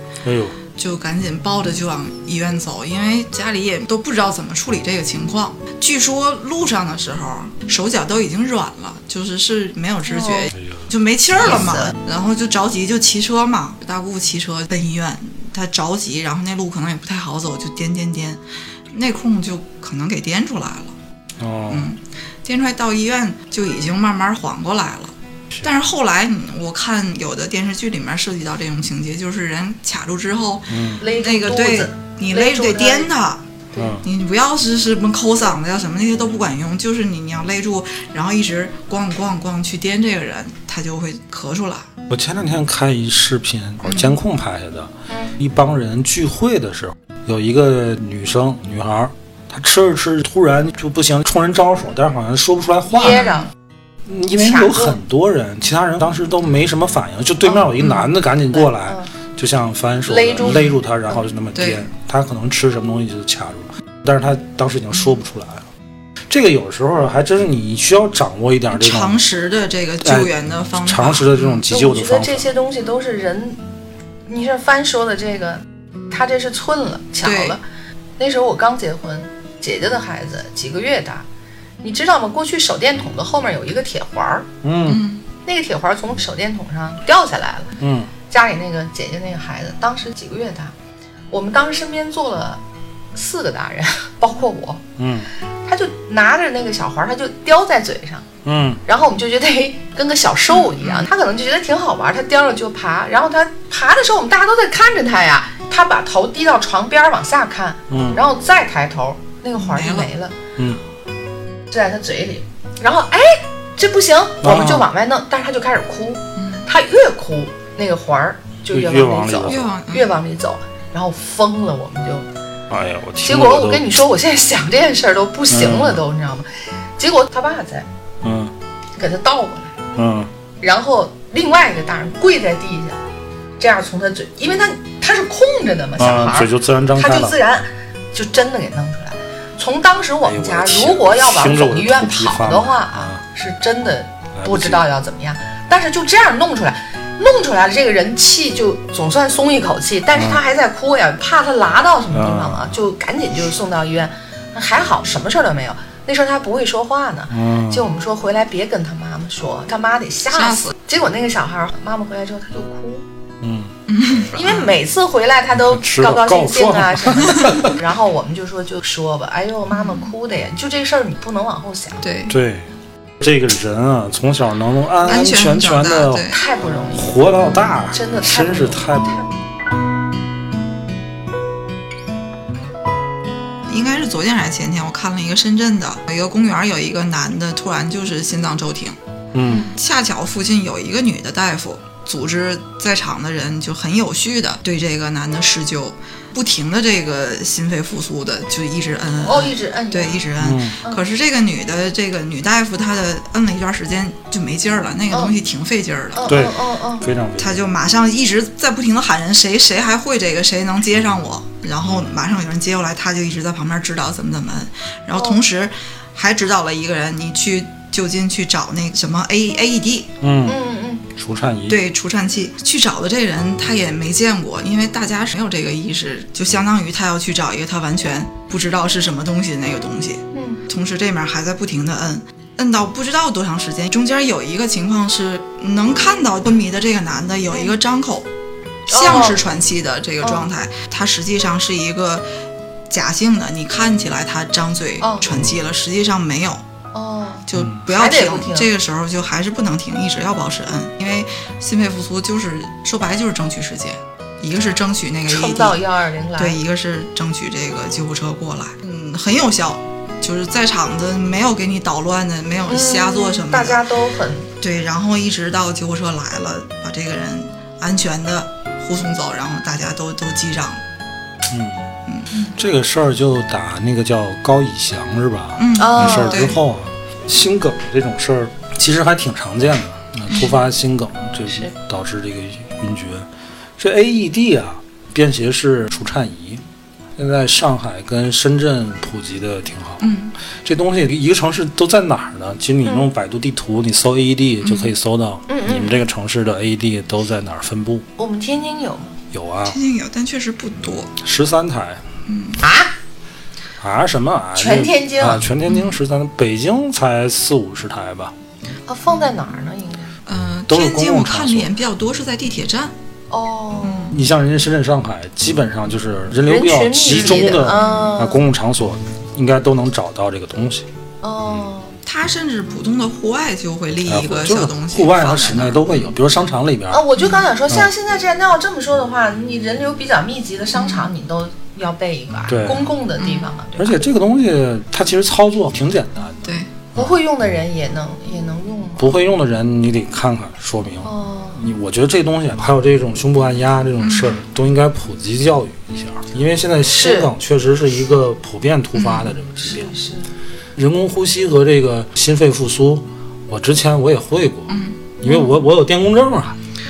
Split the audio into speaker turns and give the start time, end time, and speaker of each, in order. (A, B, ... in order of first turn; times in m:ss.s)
0:00.2-0:00.6 A
0:00.7-0:18.4 B
0:10.1-0:10.5 C
0:10.6-0:10.8 A
0:11.4-0:11.9 C
0:18.9-0:20.9 B
0:21.4-0:21.9 A
0:21.7-0:33.4 B
0:30.7-0:31.0 A
0:31.0-0:33.1 C
0:33.7-0:34.0 A
0:34.0-0:41.9 B
0:42.1-0:53.2 A
0:43.8-0:44.2 B
0:45.1-0:45.3 C
0:52.9-0:53.5 C
0:53.0-0:53.5 B
0:54.0-1:05.6 A
0:54.4-0:55.0 C
0:58.5-0:59.1 C
1:00.1-1:00.7 C
1:00.4-1:00.7 B
1:01.5-1:01.8 B
1:06.3-1:09.2 A
1:08.7-1:11.6 B
1:10.0-1:10.3 A
1:10.8-1:12.5 A
1:11.7-1:13.6 C
1:14.3-1:17.6 C
1:17.2-1:17.6 B
1:18.2-1:21.2 C
1:21.8-1:24.5 C
1:24.6-1:25.0 A
1:24.9-1:25.2 B
1:25.4-1:27.7 C
1:27.8-1:28.1 A
1:28.3-1:30.7 C
1:31.3-1:32.6 C
1:33.1-1:34.8 C
1:35.0-1:35.3 A
1:35.6-1:38.2 C
1:38.4-1:38.8 A
1:38.8-1:50.4 C
1:40.5-1:41.1 B
1:47.9-1:48.2 A
1:49.6-1:50.1 B
1:51.7-2:02.3 C
1:54.4-1:54.9 A
1:56.4-1:56.6 B
1:58.7-1:59.7 A
1:59.4-2:00.1 B
2:02.7-2:03.9 A
2:03.2-2:07.9 C
2:05.5-2:06.0 A
2:08.2-2:08.5 A
2:09.0-2:09.8 C
2:10.0-2:10.3 A
2:10.6-2:13.0 C
2:13.6-2:43.0 C
2:16.0-2:17.3 A
2:20.2-2:23.2 A
2:24.3-2:24.8 A
2:30.1-2:30.4 A
2:32.1-2:32.8 A
2:37.3-2:37.8 A
2:40.3-2:40.7 B
2:43.4-2:43.7 A
2:43.9-2:44.7 B
2:44.3-2:52.0 C
2:45.6-2:47.7 A
2:49.7-2:50.1 B
2:52.0-2:52.4 B
2:52.3-2:52.7 A
2:53.2-2:56.3 A
2:55.0-2:56.4 B
2:56.3-2:57.1 C
2:56.9-2:59.2 A
2:57.9-2:59.3 C
3:03.7-3:09.0 B
3:09.3-3:09.7 A
3:09.7-3:26.4 B
3:19.2-3:20.2 C
3:20.4-3:20.8 A
3:26.1-3:27.0 C
3:26.3-3:27.6 A
3:27.4-3:40.1 B
3:40.2-3:40.6 A
3:40.4-3:41.0 C
3:41.2-3:41.8 A
3:41.7-3:58.3 B
3:50.3-3:50.6 C
3:58.9-3:59.5 C
3:58.9-4:02.3 B
4:00.2-4:00.5 C
4:02.9-4:06.6 B
4:05.0-4:05.3 C
4:05.3-4:05.6 A
4:06.9-4:08.7 C
4:07.5-4:15.8 B
4:07.5-4:07.8 A
4:15.3-4:16.6 C
4:16.4-4:23.8 B
4:22.6-4:24.5 C
4:24.6-4:30.8 B
4:31.5-4:31.8 A
4:32.6-4:43.3 A
4:35.6-4:36.6 B
4:35.8-4:36.5 C
4:43.8-4:46.6 A
4:47.2-4:50.1 A
4:50.0-4:50.3 B
4:50.6-4:58.0 A
4:54.6-4:54.9 B
4:55.5-4:56.0 C
4:58.2-4:59.1 C
4:59.3-4:59.8 A
4:59.6-5:01.1 B
5:01.2-5:02.1 A
5:02.3-5:02.6 B
5:02.6-5:02.9 C
5:03.8-5:08.3 A
5:04.6-5:05.4 C
5:05.6-5:06.0 B
5:08.9-5:10.1 C
5:10.2-5:12.9 B
5:10.7-5:11.7 A
5:13.3-5:14.2 C
5:13.8-5:14.2 B
5:14.1-5:20.9 A
5:16.5-5:18.4 C
5:17.1-5:18.1 B
5:21.2-5:22.0 C
5:22.0-5:26.0 B
5:24.1-5:27.0 A
5:26.9-5:34.0 C
5:30.8-5:31.1 B
5:32.5-5:32.9 A
5:33.2-5:33.5 B
5:33.8-5:37.1 A
5:36.4-5:36.7 B
5:36.9-5:39.1 C
5:39.0-5:49.9 A
5:41.0-5:41.6 C
5:44.0-5:44.4 B
5:46.9-5:47.3 C
5:49.0-5:49.3 B
5:49.6-5:50.3 C
5:50.8-5:56.6 A
5:54.7-5:55.0 B
5:55.2-5:55.5 C